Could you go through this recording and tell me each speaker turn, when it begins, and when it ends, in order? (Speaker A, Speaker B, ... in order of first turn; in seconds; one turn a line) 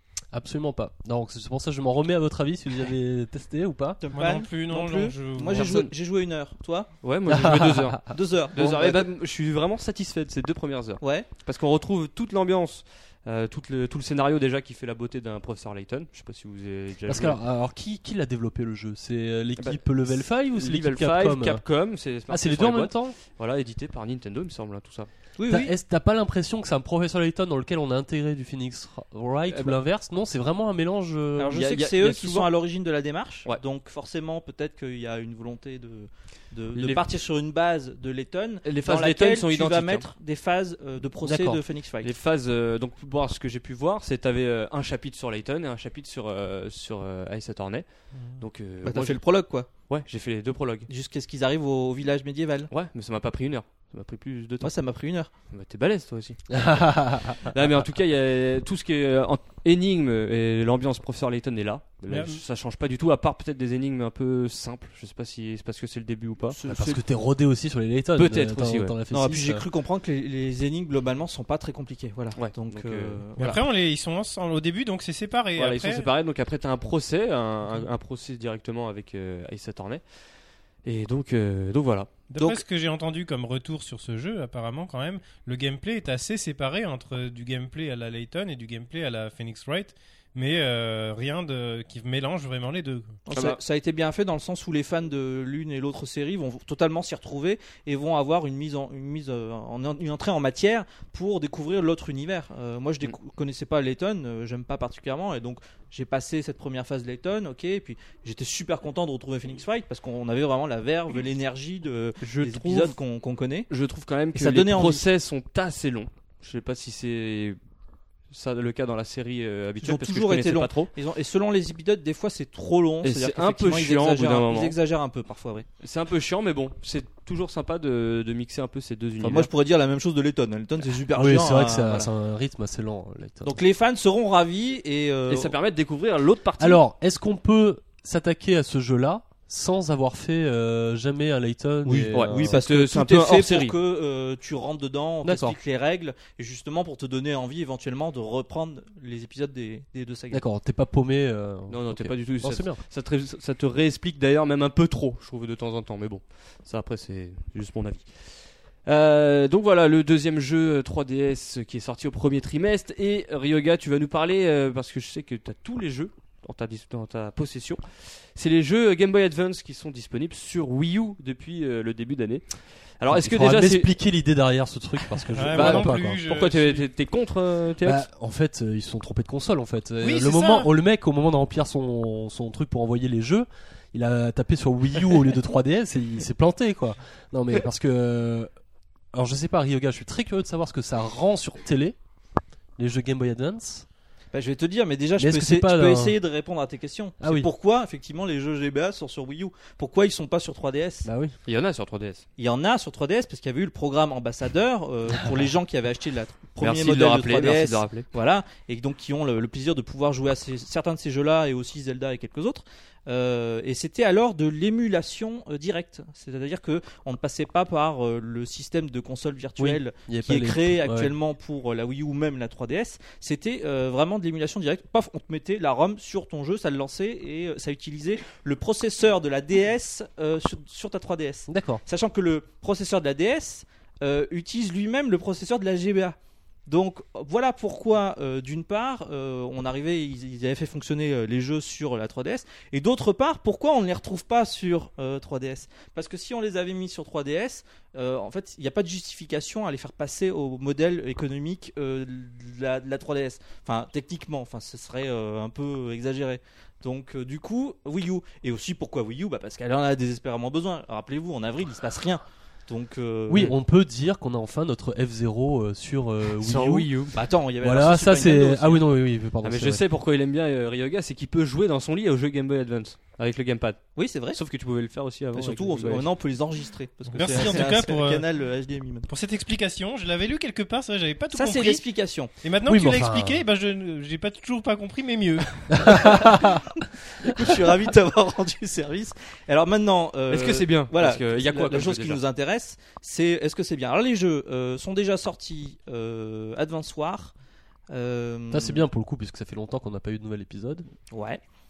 Speaker A: 0.3-4.0
Speaker B: 4.0-6.9
Speaker C: 4.1-5.7
Speaker D: 5.5-5.9
Speaker D: 7.0-17.4
Speaker A: 7.3-7.9
Speaker B: 8.1-9.1
Speaker B: 11.0-11.3
Speaker A: 17.1-21.6
Speaker D: 19.6-19.8
Speaker D: 20.3-25.1
Speaker A: 22.3-23.2
Speaker B: 25.4-25.7
Speaker A: 25.5-31.6
Speaker D: 29.5-29.8
Speaker B: 31.4-42.1
Speaker D: 31.5-32.5
Speaker D: 36.7-37.0
Speaker D: 38.6-40.1
Speaker A: 41.2-41.6
Speaker D: 42.0-47.8
Speaker D: 48.4-49.2
Speaker B: 48.8-49.7
Speaker D: 49.9-50.9
Speaker B: 50.9-52.7
Speaker D: 52.7-54.7
Speaker B: 54.6-55.3
Speaker D: 55.5-66.6
Speaker A: 56.5-57.4
Speaker C: 62.1-62.4
Speaker B: 66.5-67.0
Speaker A: 66.7-69.6
Speaker D: 68.2-68.9
Speaker B: 69.1-73.6
Speaker D: 72.3-73.2
Speaker C: 73.4-76.1
Speaker D: 75.5-80.0
Speaker D: 80.8-82.1
Speaker C: 82.3-93.1
Speaker B: 82.3-82.6
Speaker B: 93.3-113.7
Speaker D: 112.2-113.0
Speaker D: 113.7-117.6
Speaker B: 114.3-115.0
Speaker D: 118.3-120.9
Speaker B: 119.8-125.7
Speaker D: 123.0-124.8
Speaker D: 125.8-129.5
Speaker B: 129.2-132.1
Speaker A: 131.1-133.5
Speaker B: 133.4-135.5
Speaker D: 135.3-136.8
Speaker A: 136.6-142.6
Speaker B: 141.8-150.4
Speaker D: 142.1-143.7
Speaker A: 145.2-145.6
Speaker A: 150.3-152.8
Speaker D: 151.7-158.2
Speaker D: 158.8-173.9
Speaker A: 173.1-176.2
Speaker C: 175.3-176.9
Speaker D: 175.5-178.0
Speaker A: 177.8-188.5
Speaker C: 180.0-180.7
Speaker A: 189.1-191.9
Speaker A: 192.8-193.8
Speaker B: 194.3-201.1
Speaker A: 195.2-196.2
Speaker A: 197.2-197.5
Speaker A: 201.0-201.3
Speaker D: 201.5-202.2
Speaker B: 202.4-236.2
Speaker D: 206.6-208.1
Speaker A: 219.6-221.1
Speaker A: 231.5-231.8
Speaker B: 236.7-263.5
Speaker A: 263.3-266.9
Speaker D: 266.4-267.1
Speaker B: 267.1-268.8
Speaker A: 267.6-269.8
Speaker D: 269.4-276.1
Speaker B: 273.9-274.4
Speaker B: 275.3-279.1
Speaker C: 277.1-278.2
Speaker C: 279.1-281.8
Speaker B: 281.3-282.3
Speaker C: 282.4-286.3
Speaker A: 282.6-283.4
Speaker A: 285.7-286.6
Speaker B: 286.3-286.6
Speaker B: 287.2-297.3
Speaker D: 290.3-292.2
Speaker B: 297.9-298.9
Speaker A: 298.5-300.9
Speaker B: 301.1-301.4